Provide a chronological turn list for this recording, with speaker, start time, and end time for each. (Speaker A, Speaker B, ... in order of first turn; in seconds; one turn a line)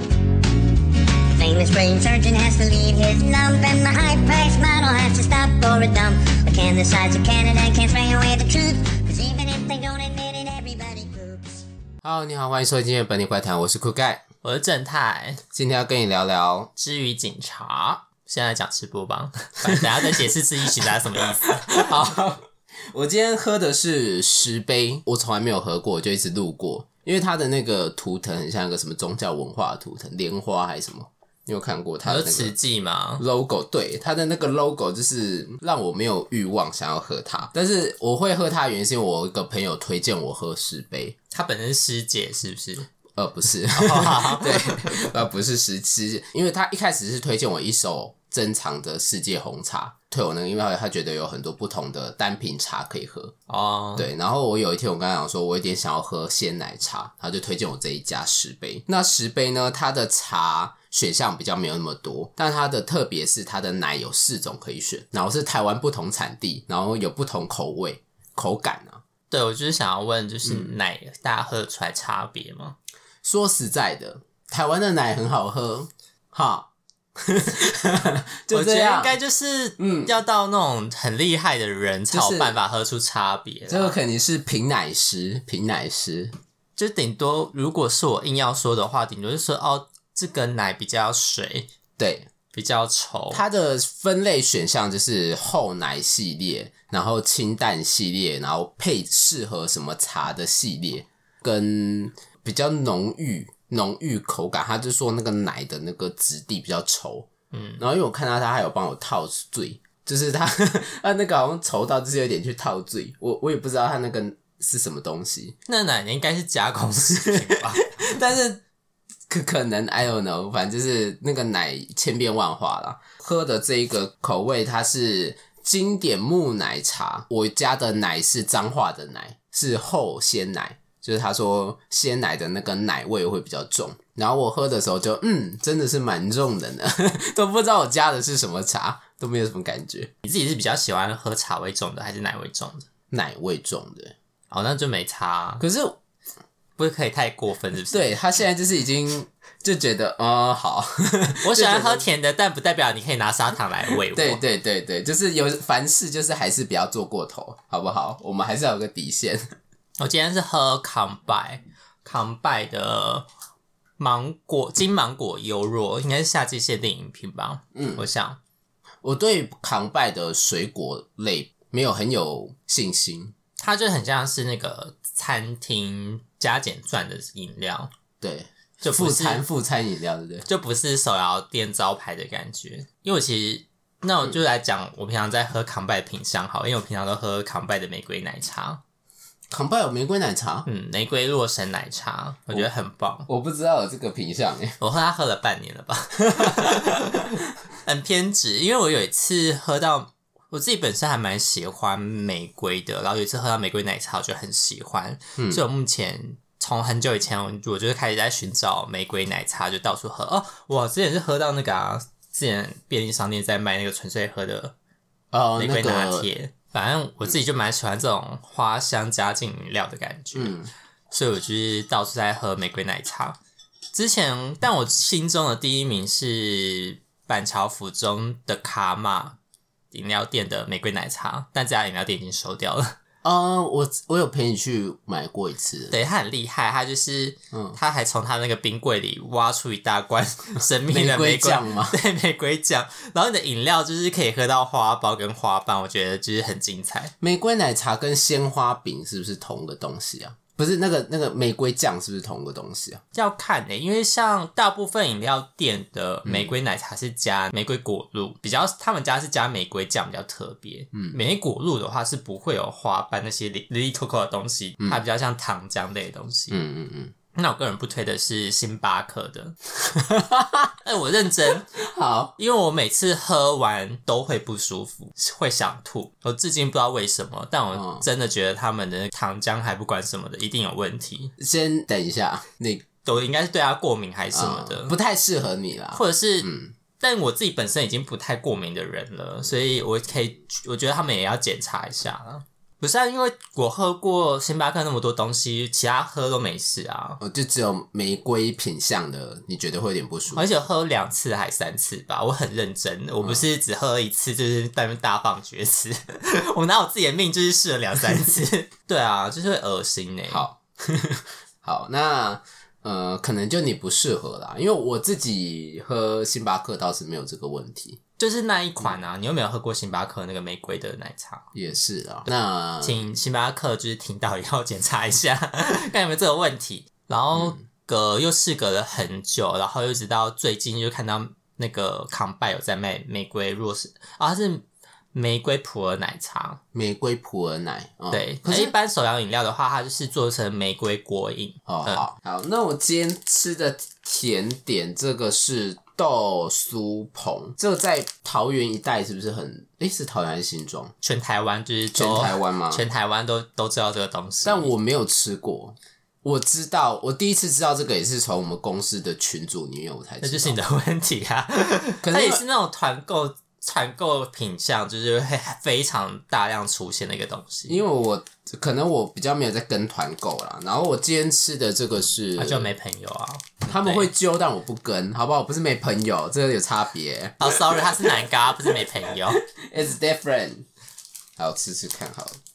Speaker A: 1.3-11.4
Speaker B: 12.0-14.2
Speaker C: 14.4-15.4
Speaker B: 15.5-16.7
Speaker C: 16.8-22.1
Speaker B: 19.6-32.5
Speaker C: 32.0-33.2
Speaker B: 33.2-41.1
Speaker C: 41.3-42.9
Speaker B: 43.1-53.3
Speaker C: 43.7-44.9
Speaker C: 53.5-54.1
Speaker B: 54.0-69.0
Speaker C: 69.3-72.7
Speaker B: 70.4-70.7
Speaker B: 73.2-79.2
Speaker C: 78.5-84.0
Speaker B: 79.8-80.1
Speaker B: 82.1-82.5
Speaker B: 83.7-86.3
Speaker C: 86.8-91.7
Speaker B: 92.0-92.3
Speaker C: 92.5-93.4
Speaker B: 93.3-115.5
Speaker C: 107.5-107.8
Speaker C: 115.7-117.8
Speaker B: 117.1-118.6
Speaker B: 119.3-140.1
Speaker C: 140.2-142.9
Speaker B: 143.1-144.2
Speaker C: 144.5-145.6
Speaker B: 145.6-146.0
Speaker C: 146.8-148.1
Speaker B: 147.9-152.1
Speaker C: 151.4-154.4
Speaker B: 153.9-159.4
Speaker C: 160.0-163.3
Speaker C: 164.0-168.4
Speaker B: 167.7-168.0
Speaker B: 169.0-173.3
Speaker C: 173.6-177.9
Speaker B: 178.2-180.4
Speaker C: 178.8-179.4
Speaker C: 180.4-188.8
Speaker B: 189.5-190.7
Speaker C: 190.7-193.3
Speaker B: 193.3-194.8
Speaker C: 194.8-214.7
Speaker B: 196.3-197.0
Speaker B: 205.4-205.6
Speaker B: 215.3-216.3
Speaker C: 215.6-220.5
Speaker B: 220.3-220.7
Speaker C: 221.1-223.4
Speaker C: 223.9-229.4
Speaker C: 229.9-232.9
Speaker B: 233.2-235.9
Speaker C: 235.9-247.1
Speaker B: 237.5-237.8
Speaker B: 240.8-241.9
Speaker B: 247.2-253.0
Speaker C: 253.1-266.6
Speaker B: 256.2-256.5
Speaker B: 266.5-267.1
Speaker C: 267.3-269.5
Speaker B: 269.8-270.7
Speaker C: 270.8-271.6
Speaker B: 271.7-272.3
Speaker C: 272.4-281.3
Speaker B: 277.7-278.0
Speaker B: 281.4-282.8
Speaker C: 283.0-284.9
Speaker B: 284.3-286.7
Speaker C: 285.9-297.2
Speaker B: 297.2-300.4
Speaker C: 300.3-310.4
Speaker B: 310.3-318.0
Speaker C: 318.2-321.4
Speaker B: 321.5-323.0
Speaker C: 322.8-336.6
Speaker B: 327.3-327.6
Speaker B: 336.7-338.7
Speaker C: 338.1-342.0
Speaker B: 341.7-350.9
Speaker C: 351.0-354.7
Speaker B: 351.9-352.8
Speaker B: 354.4-360.6
Speaker C: 360.2-367.8
Speaker B: 362.0-362.4
Speaker B: 367.7-372.7
Speaker C: 372.4-374.1
Speaker B: 373.7-380.7
Speaker C: 377.4-379.4
Speaker B: 381.4-382.4